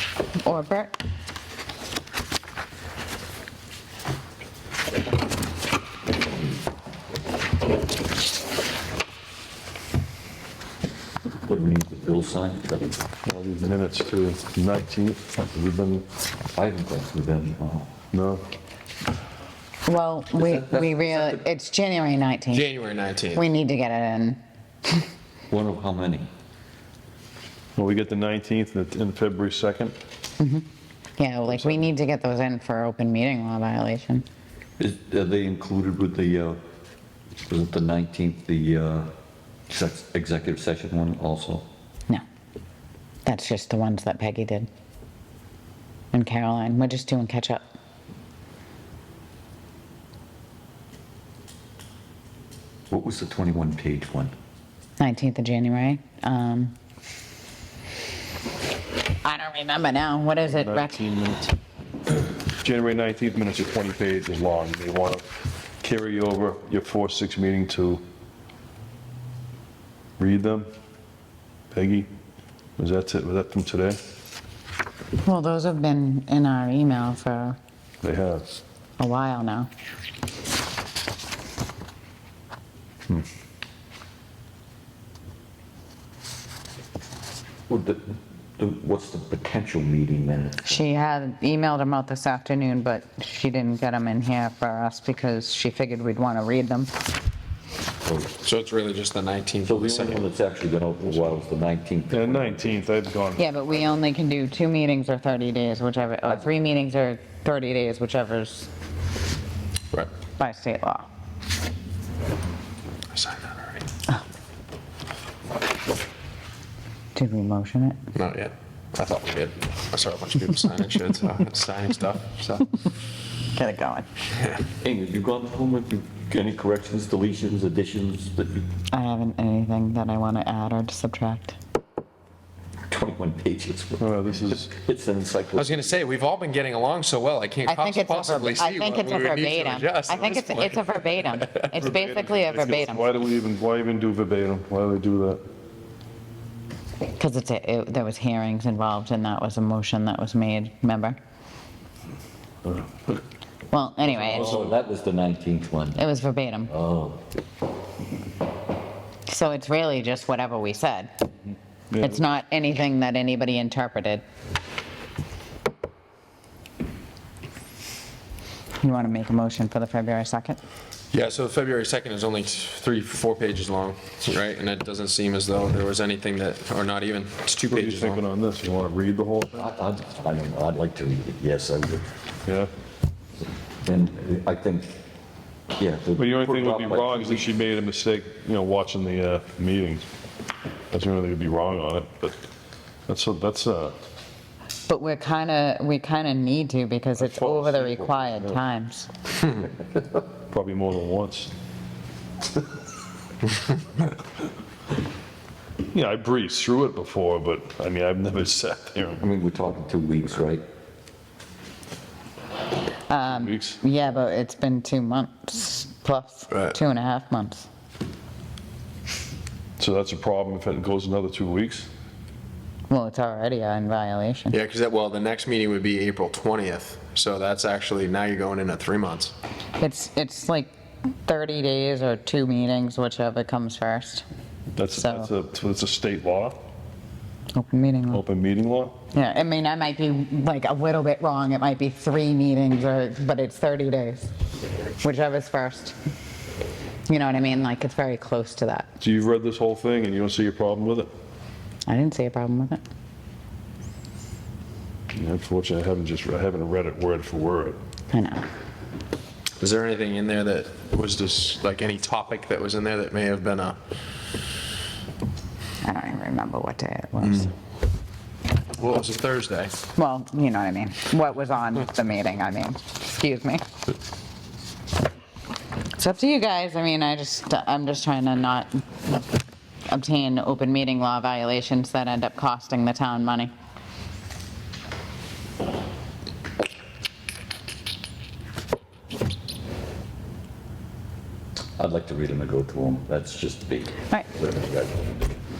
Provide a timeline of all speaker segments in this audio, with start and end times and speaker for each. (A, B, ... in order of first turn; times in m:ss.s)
0:00.4-0:01.0 A
0:11.4-0:13.0 B
0:13.2-0:16.0 C
0:16.5-0:17.9 B
0:18.1-0:18.4 C
0:19.8-0:22.7 A
0:20.4-0:21.4 B
0:22.5-0:23.4 D
0:23.3-0:25.0 A
0:25.5-0:26.3 B
0:27.8-0:30.0 C
0:30.4-0:30.6 A
0:31.2-0:34.2 A
0:34.8-0:36.6 B
0:37.5-0:39.1 B
0:39.7-0:41.6 B
0:43.2-0:44.7 A
0:46.1-0:47.6 A
0:52.9-0:54.3 B
0:55.0-0:56.7 A
0:59.2-1:01.0 A
1:00.6-1:01.5 C
1:02.6-1:05.2 C
1:05.8-1:08.0 C
1:10.2-1:10.7 C
1:11.7-1:12.1 C
1:12.8-1:14.0 C
1:15.2-1:17.6 A
1:18.0-1:18.4 C
1:19.0-1:19.7 A
1:27.7-1:30.8 B
1:30.6-1:36.9 A
1:38.0-1:38.4 B
1:38.4-1:40.2 D
1:39.6-1:42.8 B
1:42.1-1:43.4 C
1:43.4-1:48.7 A
1:50.4-1:51.1 A
1:53.1-1:53.8 D
1:57.1-1:58.0 A
1:58.1-2:02.6 D
2:03.5-2:04.1 A
2:04.3-2:04.6 D
2:04.8-2:08.7 B
2:08.9-2:11.6 A
2:12.9-2:16.0 B
2:14.0-2:14.7 C
2:15.6-2:21.7 D
2:17.6-2:23.2 A
2:21.7-2:25.4 C
2:27.2-2:31.2 A
2:32.6-2:33.1 C
2:33.7-2:34.6 A
2:34.1-2:36.0 B
2:36.0-2:36.7 A
2:36.7-2:37.2 B
2:39.3-2:41.1 A
2:41.9-2:42.2 C
2:42.0-2:44.2 A
2:48.8-2:50.6 A
2:51.1-2:58.2 D
2:57.6-2:59.6 C
2:59.5-3:02.1 B
3:03.8-3:05.0 B
3:05.8-3:07.5 B
3:06.2-3:10.0 C
3:10.9-3:12.4 C
3:13.1-3:13.9 C
3:14.9-3:19.1 A
3:17.2-3:18.6 C
3:20.5-3:21.5 C
3:25.9-3:29.2 C
3:29.2-3:30.6 B
3:33.1-3:37.7 A
3:33.3-3:33.8 C
3:39.8-3:41.9 C
3:42.9-3:44.6 A
3:44.5-3:49.3 D
3:49.8-3:50.7 A
3:51.2-3:54.2 A
3:54.8-3:56.6 C
3:54.9-3:55.3 A
3:57.5-3:58.2 A
3:58.1-3:58.9 C
3:59.1-4:04.3 A
4:05.0-4:05.9 A
4:07.1-4:08.9 A
4:09.0-4:11.1 C
4:11.9-4:12.8 A
4:15.1-4:17.8 C
4:18.1-4:18.5 A
4:19.6-4:23.8 D
4:25.8-4:27.5 A
4:28.8-4:29.8 D
4:29.9-4:33.6 A
4:35.9-4:38.7 A
4:39.9-4:43.5 A
4:51.8-4:55.4 B